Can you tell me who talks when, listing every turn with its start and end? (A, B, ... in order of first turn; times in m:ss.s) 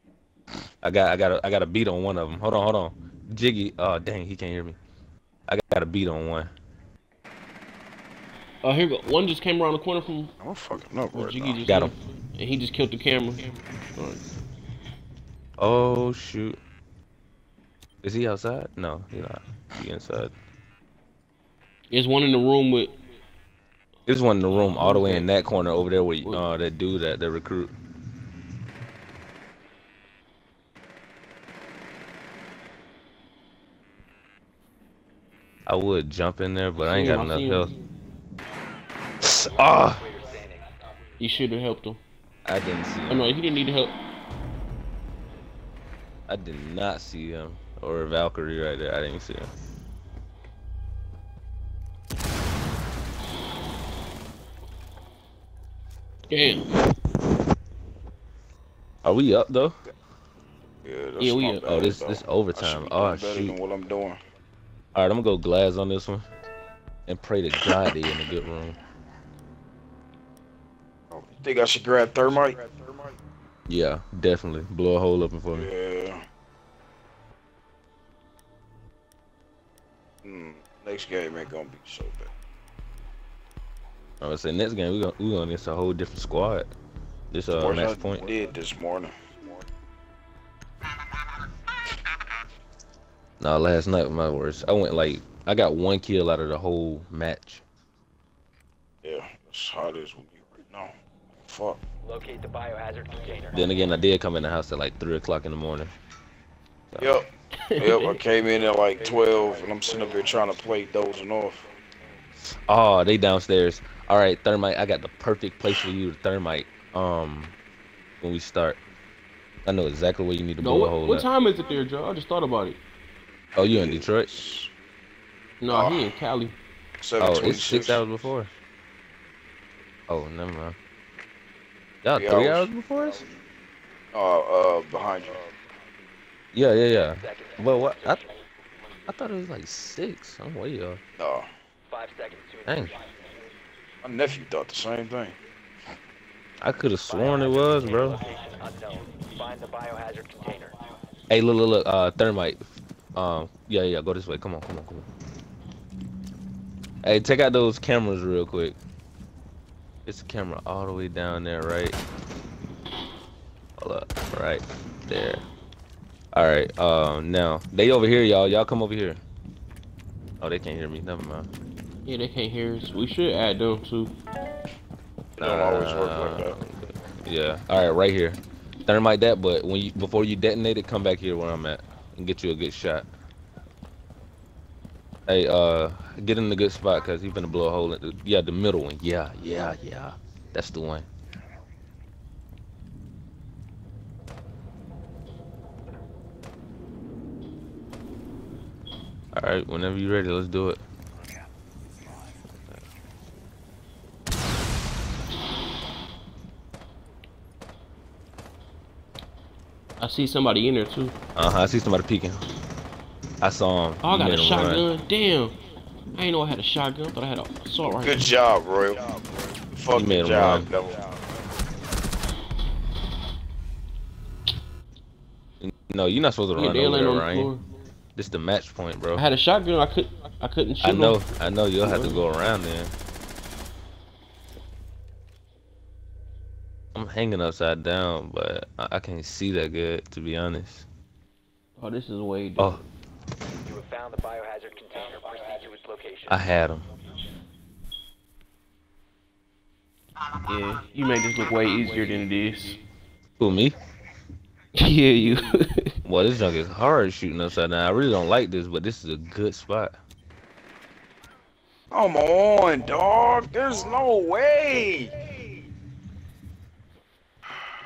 0:00.8-0:04.8 A
0:05.5-0:06.5 A
0:08.6-0:10.3 B
0:10.4-0:11.6 C
0:11.1-0:14.2 B
0:11.7-0:11.9 A
0:15.6-0:16.6 A
0:18.0-0:20.3 A
0:21.9-0:22.9 B
0:24.1-0:27.7 A
0:24.7-0:25.3 B
0:35.7-0:37.7 A
0:36.8-0:37.7 B
0:39.2-0:40.0 A
0:39.4-0:40.7 D
0:41.2-0:42.0 B
0:42.4-0:43.3 A
0:43.1-0:44.0 B
0:46.3-0:49.5 A
0:56.3-0:56.7 B
0:59.0-0:59.8 A
1:00.8-1:04.2 C
1:01.2-1:01.7 B
1:01.7-1:03.6 A
1:04.9-1:06.2 A
1:07.1-1:08.8 A
1:11.1-1:12.8 C
1:13.7-1:15.7 A
1:15.5-1:16.2 C
1:20.2-1:22.3 C
1:24.2-1:26.7 A
1:27.3-1:28.3 A
1:27.5-1:29.6 C
1:33.4-1:37.6 A
1:39.0-1:40.9 C
1:41.5-1:41.8 C
1:42.0-1:43.6 D
1:43.5-1:45.9 A
1:47.0-1:51.7 C
1:47.6-1:48.2 B
1:52.5-1:57.6 A
1:58.2-1:58.8 A
1:59.6-2:01.3 A
2:00.6-2:02.8 B
2:03.6-2:04.4 A
2:03.6-2:04.7 C
2:05.6-2:06.6 B
2:05.7-2:06.2 C
2:07.0-2:08.0 C
2:07.2-2:08.5 A
2:10.1-2:10.8 A
2:12.0-2:13.2 A
2:12.2-2:12.7 C
2:14.1-2:15.5 C
2:16.5-2:18.2 A
2:16.9-2:18.4 D
2:19.1-2:21.0 A
2:21.2-2:21.5 C
2:21.9-2:23.1 D
2:22.7-2:23.0 A
2:24.0-2:25.4 C
2:26.6-2:28.2 A
2:27.1-2:30.8 D
2:31.3-2:35.1 A
2:37.0-2:38.8 A
2:40.0-2:42.0 A
2:43.8-2:45.4 A
2:46.3-2:49.2 A
2:50.4-2:51.5 A
2:52.0-2:54.1 B
2:55.4-2:56.6 C
2:55.4-3:03.1 A
3:05.3-3:11.1 A
3:19.3-3:20.8 A
3:30.0-3:31.2 B
3:31.4-3:32.4 A
3:33.4-3:34.8 A
3:34.0-3:35.6 B
3:36.1-3:38.3 B
3:38.0-3:39.0 C
3:39.7-3:41.2 C
3:39.9-3:40.7 A
3:45.6-3:47.5 A
3:46.6-3:47.6 B
3:48.2-3:49.2 A
3:49.1-3:51.2 B
3:50.8-3:52.9 A
3:51.8-3:52.2 B
3:56.9-4:00.9 A
4:01.8-4:02.8 B
4:03.6-4:06.4 D
4:06.3-4:06.9 A
4:10.4-4:12.8 B
4:13.4-4:13.8 A
4:14.8-4:16.0 B
4:16.0-4:20.0 A
4:21.9-4:25.2 C